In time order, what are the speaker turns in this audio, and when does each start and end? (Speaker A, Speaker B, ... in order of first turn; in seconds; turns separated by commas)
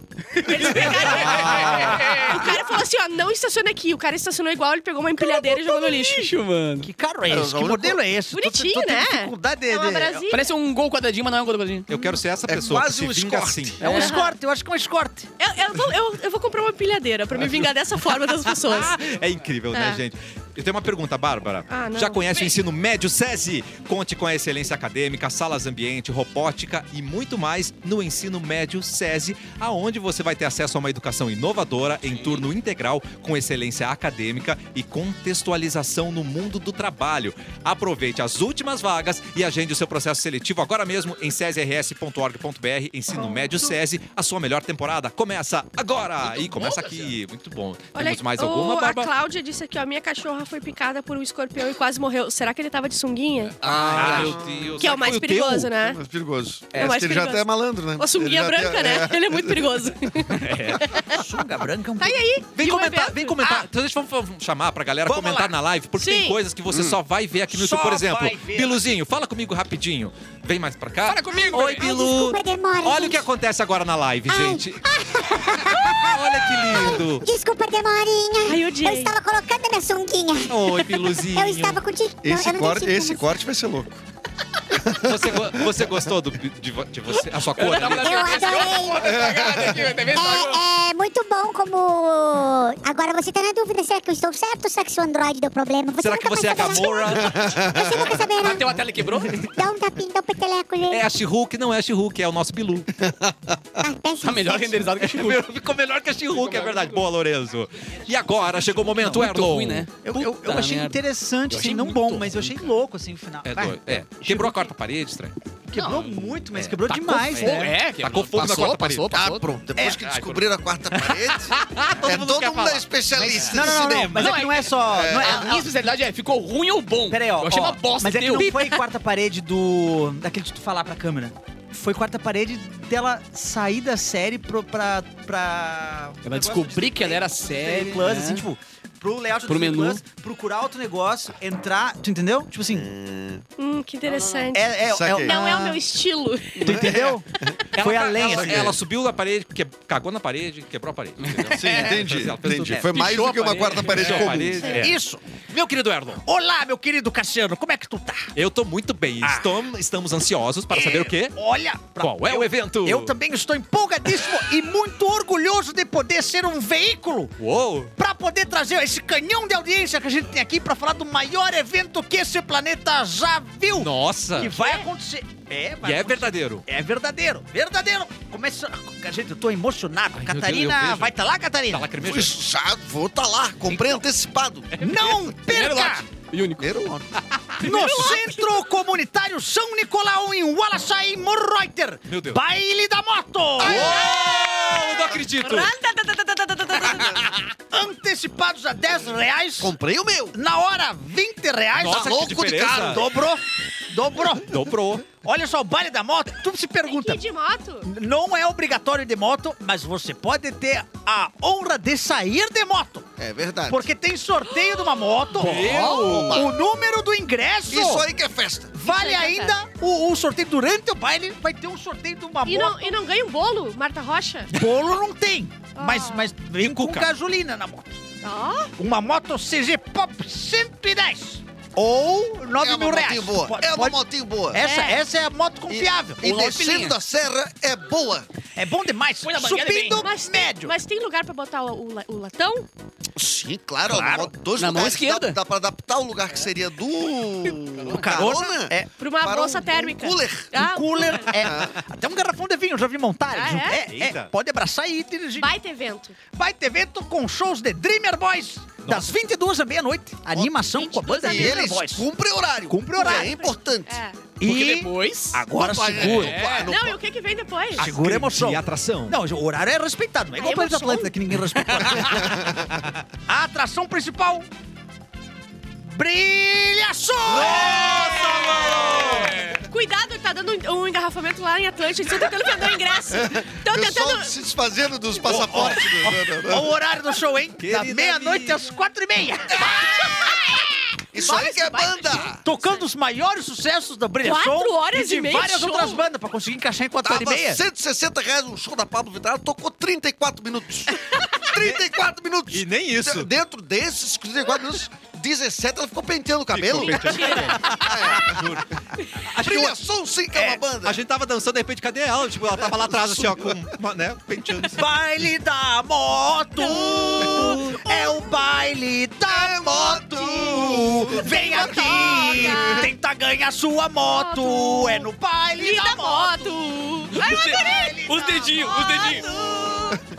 Speaker A: 0.3-2.6, Speaker B: 0.4-6.3, Speaker C: 0.8-2.3, Speaker D: 1.5-2.4, Speaker A: 5.7-6.9, Speaker D: 6.8-10.2, Speaker E: 7.3-8.2, Speaker B: 8.3-10.5, Speaker A: 10.3-11.9, Speaker C: 11.9-13.8, Speaker E: 12.5-13.8, Speaker A: 13.8-14.1, Speaker D: 13.8-15.3, Speaker B: 13.8-14.3, Speaker B: 15.4-18.9, Speaker C: 18.4-49.1, Speaker B: 19.7-20.0, Speaker B: 21.7-22.6, Speaker A: 46.2-47.1, Speaker B: 47.9-53.5, Speaker C: 53.6-55.7, Speaker A: 53.6-54.4, Speaker E: 54.0-54.8, Speaker B: 54.8-56.0, Speaker E: 55.8-59.7, Speaker B: 56.7-61.2, Speaker C: 60.4-60.9, Speaker D: 61.1-62.2, Speaker B: 62.0-63.7, Speaker C: 62.5-77.2, Speaker D: 65.0-65.6, Speaker B: 66.0-66.4, Speaker E: 66.7-67.0, Speaker D: 67.5-68.8, Speaker A: 71.0-71.9, Speaker F: 71.4-73.2, Speaker F: 74.3-83.3, Speaker B: 78.4-79.1, Speaker C: 80.5-81.8, Speaker E: 82.2-84.0, Speaker E: 84.7-86.0, Speaker C: 85.0-88.3, Speaker A: 87.4-90.6, Speaker F: 87.8-89.3, Speaker E: 89.0-90.0, Speaker F: 90.1-98.8, Speaker C: 96.0-98.1, Speaker E: 97.1-98.2, Speaker A: 98.4-99.5, Speaker F: 99.5-101.0, Speaker C: 100.9-102.9, Speaker E: 103.0-103.6, Speaker F: 103.8-104.8, Speaker A: 104.2-105.5, Speaker C: 105.0-109.9, Speaker A: 106.4-106.9, Speaker D: 108.6-109.1, Speaker A: 109.0-112.6, Speaker D: 110.0-114.6, Speaker C: 113.4-115.3, Speaker D: 115.7-117.8, Speaker A: 115.7-116.1, Speaker A: 116.9-119.4, Speaker C: 117.3-119.1, Speaker E: 119.1-125.6, Speaker C: 120.0-123.6, Speaker D: 123.1-125.6, Speaker A: 124.1-128.5, Speaker D: 127.1-142.9, Speaker B: 128.4-128.7, Speaker A: 136.2-138.4, Speaker A: 139.5-140.0, Speaker E: 142.7-143.4, Speaker B: 143.6-146.8, Speaker A: 144.1-144.5, Speaker D: 144.5-145.8, Speaker E: 144.8-145.4, Speaker D: 146.6-148.8, Speaker E: 146.6-147.6, Speaker C: 147.7-153.2, Speaker E: 148.2-148.8, Speaker A: 151.2-152.0, Speaker E: 151.5-154.8, Speaker A: 152.8-154.3, Speaker C: 153.8-154.9, Speaker D: 154.1-155.2, Speaker C: 155.5-156.2, Speaker D: 156.2-158.3, Speaker C: 158.3-161.4, Speaker D: 159.2-159.6, Speaker D: 160.7-167.3, Speaker C: 162.0-163.1, Speaker C: 167.4-167.9, Speaker D: 167.9-181.9, Speaker C: 173.7-174.6, Speaker C: 175.8-176.6, Speaker C: 180.1-181.2, Speaker C: 181.7-182.4, Speaker E: 182.0-184.9, Speaker C: 184.7-185.1, Speaker D: 184.8-186.1, Speaker A: 185.4-186.9, Speaker E: 186.6-187.2, Speaker D: 187.6-194.0, Speaker B: 187.6-188.3, Speaker C: 192.1-192.4, Speaker C: 193.6-195.7, Speaker B: 193.6-197.3, Speaker C: 197.0-197.3, Speaker D: 197.7-199.7, Speaker E: 199.6-200.3, Speaker D: 200.3-207.2, Speaker C: 201.8-203.0, Speaker E: 201.8-203.0, Speaker C: 204.4-205.1, Speaker B: 206.8-207.9, Speaker D: 207.8-213.1, Speaker E: 213.2-213.8, Speaker D: 213.7-218.0, Speaker C: 215.4-216.5, Speaker E: 215.6-216.5, Speaker A: 215.6-216.1, Speaker E: 217.7-218.8, Speaker D: 218.7-223.0, Speaker B: 218.8-219.5, Speaker B: 222.4-224.5, Speaker D: 224.5-228.0, Speaker B: 225.8-226.3, Speaker B: 228.2-228.7, Speaker D: 228.8-236.2, Speaker E: 232.6-234.6, Speaker B: 234.6-235.0, Speaker E: 235.7-238.3, Speaker A: 236.2-237.0, Speaker D: 238.6-240.7, Speaker A: 239.2-240.1, Speaker B: 239.9-242.7, Speaker E: 243.2-250.5, Speaker D: 243.8-244.3, Speaker A: 244.6-245.4, Speaker A: 247.8-248.1, Speaker D: 247.8-248.9, Speaker B: 249.0-251.3, Speaker D: 250.5-255.5, Speaker E: 251.3-251.7, Speaker B: 253.3-253.8, Speaker C: 253.9-254.3, Speaker B: 255.4-256.2, Speaker D: 256.3-262.1, Speaker C: 258.8-259.1, Speaker E: 260.3-260.6, Speaker B: 260.8-261.6, Speaker E: 261.2-264.0, Speaker D: 262.7-263.4, Speaker B: 263.0-264.2, Speaker D: 264.4-266.4, Speaker A: 264.4-265.4, Speaker E: 265.5-267.0, Speaker A: 266.0-266.7, Speaker B: 266.6-267.9, Speaker D: 267.8-272.4, Speaker C: 267.8-269.2, Speaker B: 270.4-271.1, Speaker E: 272.0-272.7, Speaker D: 273.3-274.5, Speaker D: 275.8-278.8, Speaker C: 277.2-279.6, Speaker E: 277.3-277.9, Speaker B: 278.0-284.3, Speaker E: 283.1-286.7, Speaker D: 285.2-290.9, Speaker C: 287.6-288.8, Speaker B: 290.2-292.8, Speaker E: 291.1-292.4, Speaker D: 292.3-297.6, Speaker B: 294.2-296.0, Speaker E: 297.0-308.7, Speaker B: 301.0-301.5, Speaker C: 301.6-301.9, Speaker C: 302.5-303.3, Speaker C: 306.5-309.8, Speaker B: 306.8-307.9, Speaker E: 309.3-311.0, Speaker C: 310.4-314.8, Speaker E: 312.6-313.5, Speaker D: 314.7-330.0, Speaker B: 316.6-317.8, Speaker E: 319.3-322.9, Speaker B: 321.2-322.9, Speaker B: 324.1-325.1, Speaker B: 325.6-328.0, Speaker A: 327.1-329.3, Speaker B: 328.7-330.0